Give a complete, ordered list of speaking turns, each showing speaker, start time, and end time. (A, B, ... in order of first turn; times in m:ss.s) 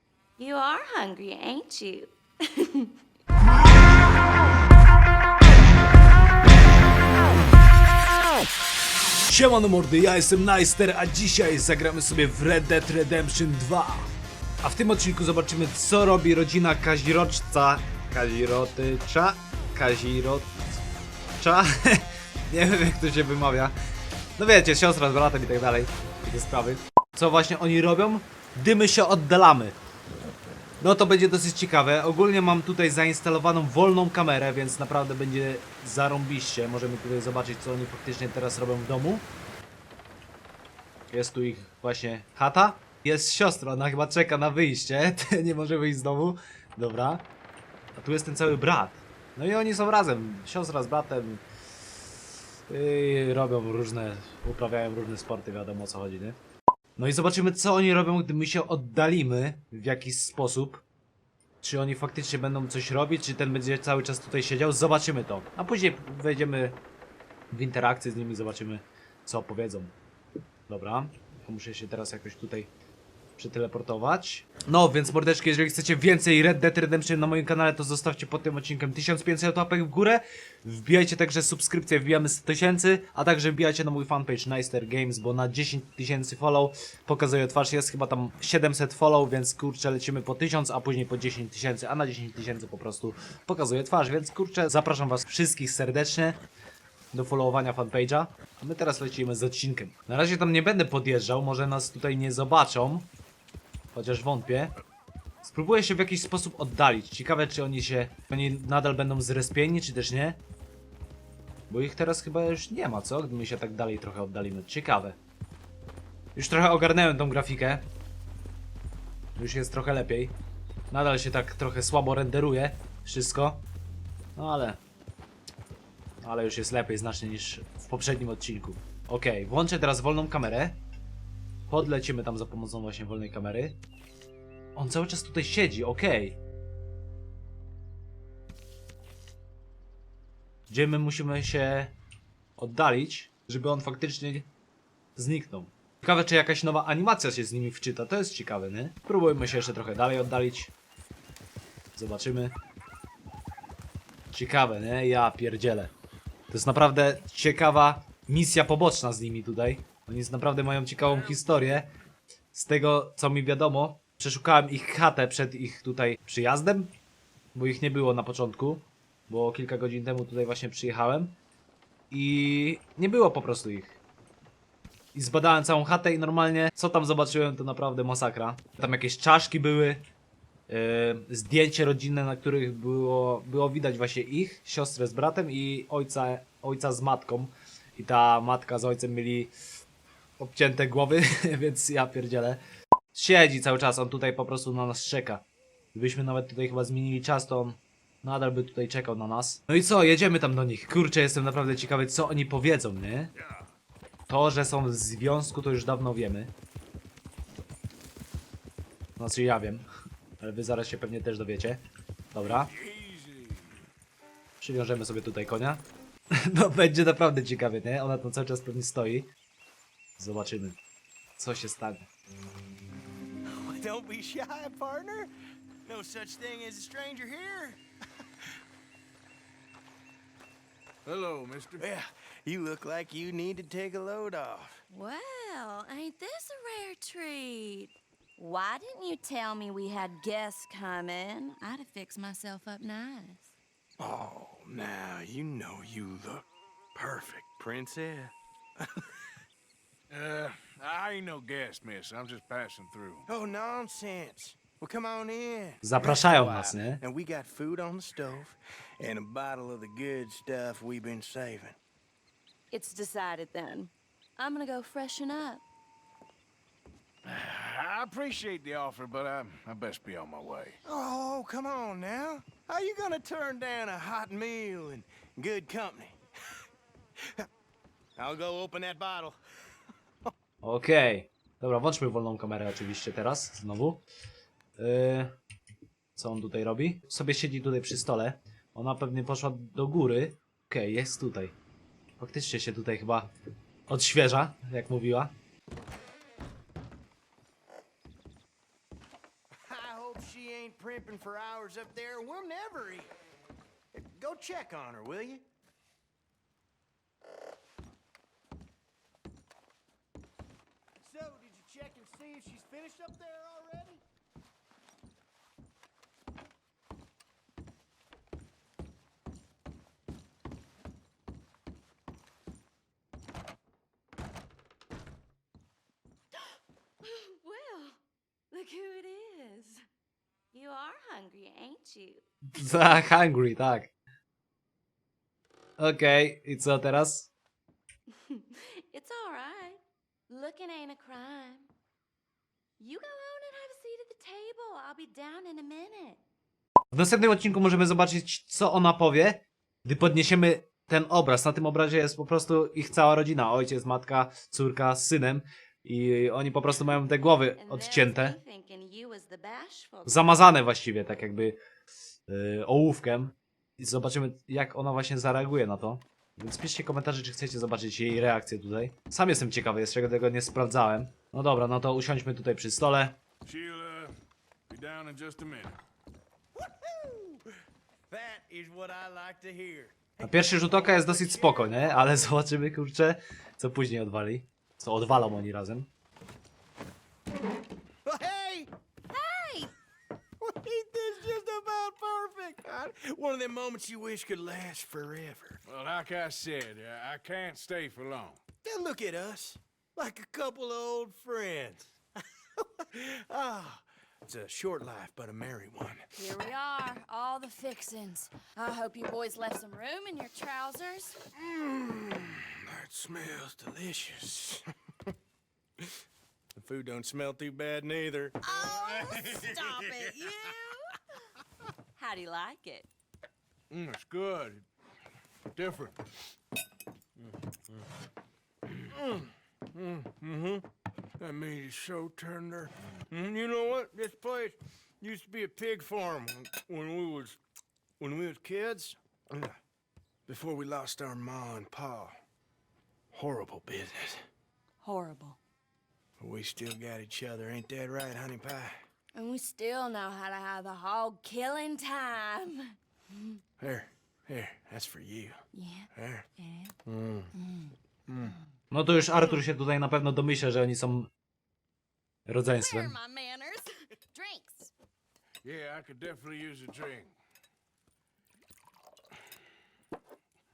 0:00.4-0:02.9 A
0:09.3-0:20.6 B
0:21.4-0:23.8 B
0:24.4-0:29.8 B
0:30.8-0:39.3 B
0:41.1-0:47.2 B
0:48.0-0:51.4 B
0:52.7-0:56.4 B
0:57.0-1:00.8 B
1:01.6-1:06.8 B
1:07.5-1:10.0 B
1:10.7-1:12.7 B
1:13.4-1:36.4 B
1:37.1-1:43.1 B
1:43.9-1:44.7 B
1:45.4-1:50.4 B
1:51.7-1:55.2 B
1:56.4-1:57.8 B
1:59.4-2:00.4 B
2:00.9-2:03.6 B
2:04.4-2:04.8 B
2:06.2-2:10.8 B
2:11.7-2:13.8 B
2:14.8-2:16.4 B
2:20.7-2:22.0 B
2:22.6-2:24.5 B
2:25.2-2:30.7 B
2:32.0-2:32.5 B
2:34.3-2:35.9 B
2:36.5-2:41.9 B
2:42.5-2:46.9 B
2:47.6-2:51.4 B
2:52.1-2:54.0 B
2:55.1-3:00.0 B
3:00.7-3:09.5 B
3:10.4-3:12.6 B
3:13.2-3:23.3 B
3:23.4-3:23.7 C
3:24.3-3:26.5 B
3:29.2-3:29.9 B
3:30.4-3:31.8 B
3:32.3-3:32.7 B
3:32.4-3:33.8 C
3:34.6-3:35.8 B
3:36.4-3:39.3 B
3:40.2-3:40.8 B
3:41.4-3:42.1 B
3:43.5-3:45.3 D
3:45.8-3:47.8 D
3:51.1-3:51.9 C
3:51.8-3:54.8 D
3:54.9-4:03.6 A
4:04.0-4:09.1 D
4:10.1-4:13.3 C
4:13.3-4:21.8 D
4:15.8-4:17.0 B
4:22.7-4:25.6 A
4:27.2-4:30.8 C
4:30.8-4:36.2 D
4:38.2-4:39.4 D
4:40.6-4:44.0 B
4:44.8-4:45.3 B
4:46.2-4:51.6 B
4:52.2-4:53.3 B
4:53.9-4:55.3 B
4:59.6-5:03.1 D
5:03.9-5:05.4 D
5:11.0-5:14.0 D
5:27.0-5:28.0 A
5:28.5-5:29.8 A
5:30.5-5:32.2 A
5:32.6-5:33.9 B
5:35.8-5:37.3 B
5:38.2-5:41.7 A
5:42.8-5:46.2 A
5:46.9-5:58.4 B
5:57.3-6:00.4 A
6:00.1-6:01.6 B
6:02.3-6:13.2 B
6:13.4-6:14.1 C
6:14.7-6:15.8 C
6:16.6-6:17.4 D
6:18.1-6:22.1 D
6:20.2-6:25.9 B
6:28.0-6:28.7 D
6:29.1-6:29.7 A
6:30.4-6:35.6 D
6:35.7-6:38.4 C
6:38.6-6:41.9 D
6:42.6-6:46.1 D
6:46.1-6:51.3 A
6:51.3-6:54.6 D
6:56.5-6:58.4 D
6:58.4-7:00.9 A
7:02.0-7:02.9 A
7:03.7-7:04.6 C
7:05.6-7:06.0 C
7:08.9-7:10.6 D
7:11.2-7:17.4 D
7:18.0-7:19.5 D
7:20.3-7:22.2 D
7:23.1-7:24.2 D
7:24.8-7:25.4 A
7:26.2-7:28.8 D
7:29.1-7:33.4 A
7:33.6-7:35.4 D
7:35.5-7:36.7 A
7:36.0-7:36.3 D
7:37.3-7:37.8 A
7:38.7-7:41.1 B
7:42.3-7:42.9 B
7:42.4-7:44.7 A
7:45.4-7:47.2 C